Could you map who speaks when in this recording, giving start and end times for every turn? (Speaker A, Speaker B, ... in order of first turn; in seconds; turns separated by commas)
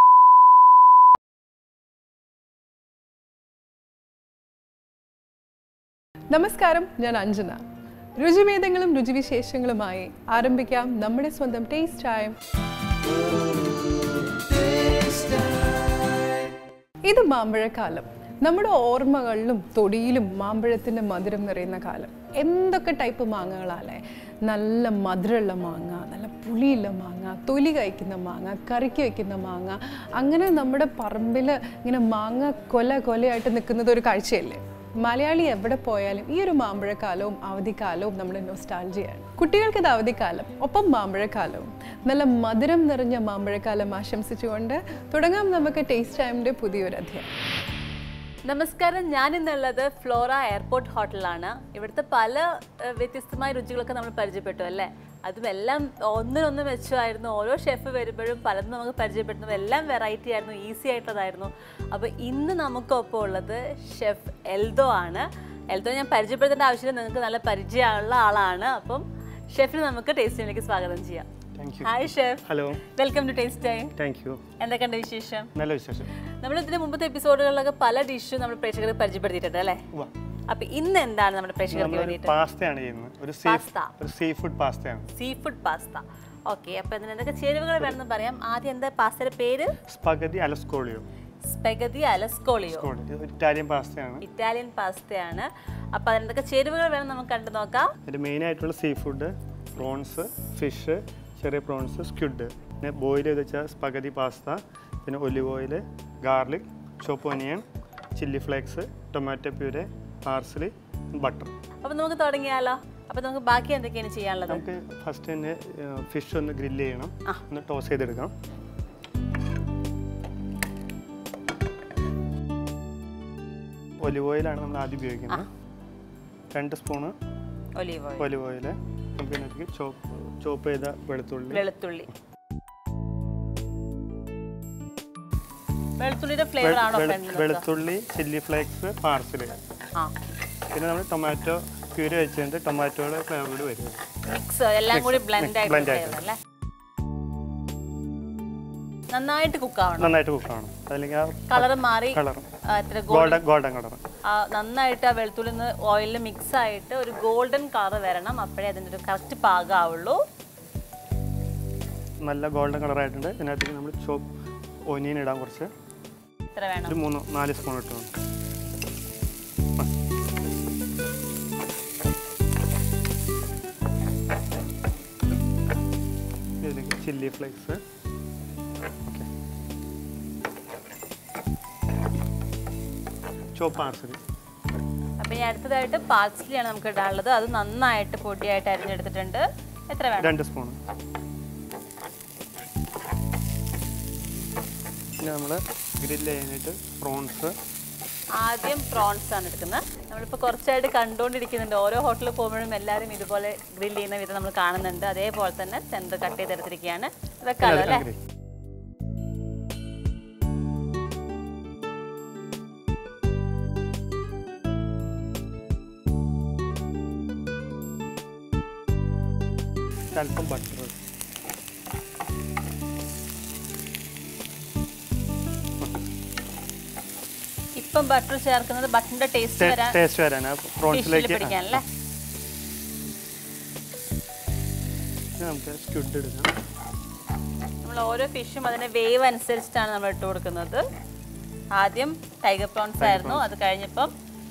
Speaker A: 6.3-7.6, Speaker A: 8.2-12.4, Speaker A: 17.0-47.3, Speaker B: 48.5-71.3, Speaker C: 71.5-72.8, Speaker B: 71.8-73.9, Speaker C: 74.0-74.4, Speaker B: 74.6-75.5, Speaker C: 75.5-76.1, Speaker B: 76.4-79.8, Speaker B: 80.5-82.3, Speaker C: 81.7-85.1, Speaker B: 83.4-83.9, Speaker B: 85.2-89.8, Speaker C: 89.8-91.0, Speaker B: 91.4-92.9, Speaker C: 92.7-94.2, Speaker B: 94.2-97.9, Speaker C: 98.0-111.5, Speaker B: 111.8-114.6, Speaker C: 114.5-118.3, Speaker C: 124.0-125.5, Speaker C: 126.5-127.1, Speaker B: 127.8-128.3, Speaker C: 128.2-131.6, Speaker B: 131.5-132.1, Speaker B: 136.0-137.6, Speaker C: 136.6-139.6, Speaker C: 140.7-144.0, Speaker B: 144.2-146.4, Speaker C: 144.9-146.2, Speaker B: 149.1-150.2, Speaker C: 150.0-152.5, Speaker B: 151.5-153.4, Speaker C: 153.1-154.0, Speaker B: 154.2-160.2, Speaker C: 162.2-164.3, Speaker C: 164.9-165.7, Speaker B: 166.5-167.0, Speaker C: 166.9-168.1, Speaker C: 176.6-177.8, Speaker C: 183.6-184.2, Speaker B: 185.2-190.3, Speaker C: 190.2-190.8, Speaker C: 195.2-197.6, Speaker B: 198.3-208.1, Speaker C: 207.6-208.2, Speaker C: 220.1-221.0, Speaker B: 227.8-230.0, Speaker C: 229.6-231.8, Speaker B: 230.9-231.8, Speaker C: 235.4-236.5, Speaker B: 237.8-240.8, Speaker B: 241.7-244.1, Speaker C: 243.0-243.4